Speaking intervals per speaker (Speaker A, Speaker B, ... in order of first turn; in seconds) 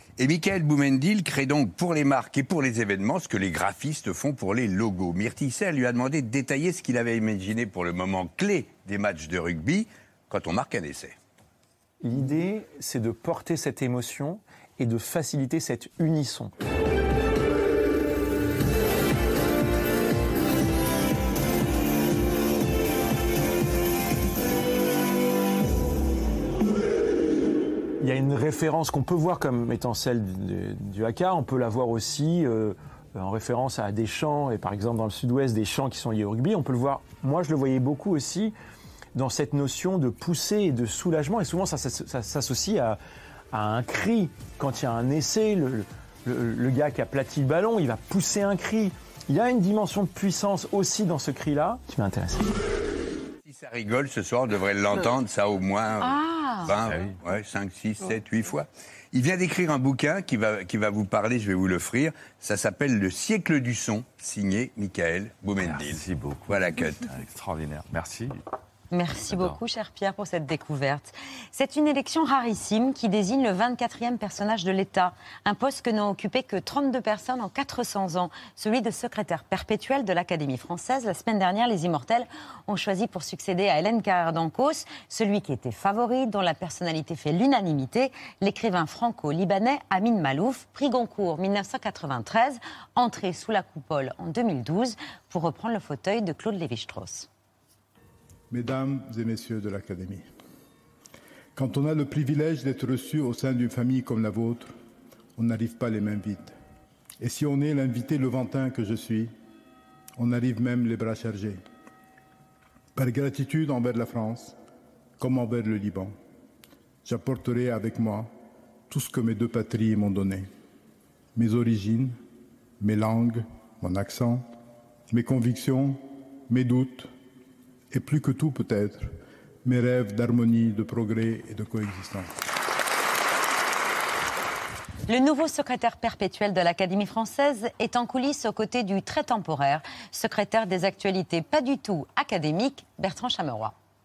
Speaker A: 0.2-11.2, 53.5-67.0
Speaker B: 12.0-16.6, 28.0-38.6, 39.1-43.0, 43.5-52.5
Speaker C: 56.0-56.7, 68.9-97.3, 135.1-143.8
Speaker D: 56.9-57.1, 65.6-68.4, 69.3-69.6
Speaker E: 98.5-100.3, 101.5-104.8, 105.4-106.6, 107.2-109.3, 110.2-111.6, 113.0-114.6, 115.2-116.2, 117.0-118.3, 118.9-120.5, 121.4-122.2, 122.8-124.5, 125.1-127.1, 127.9-129.1, 129.7-132.3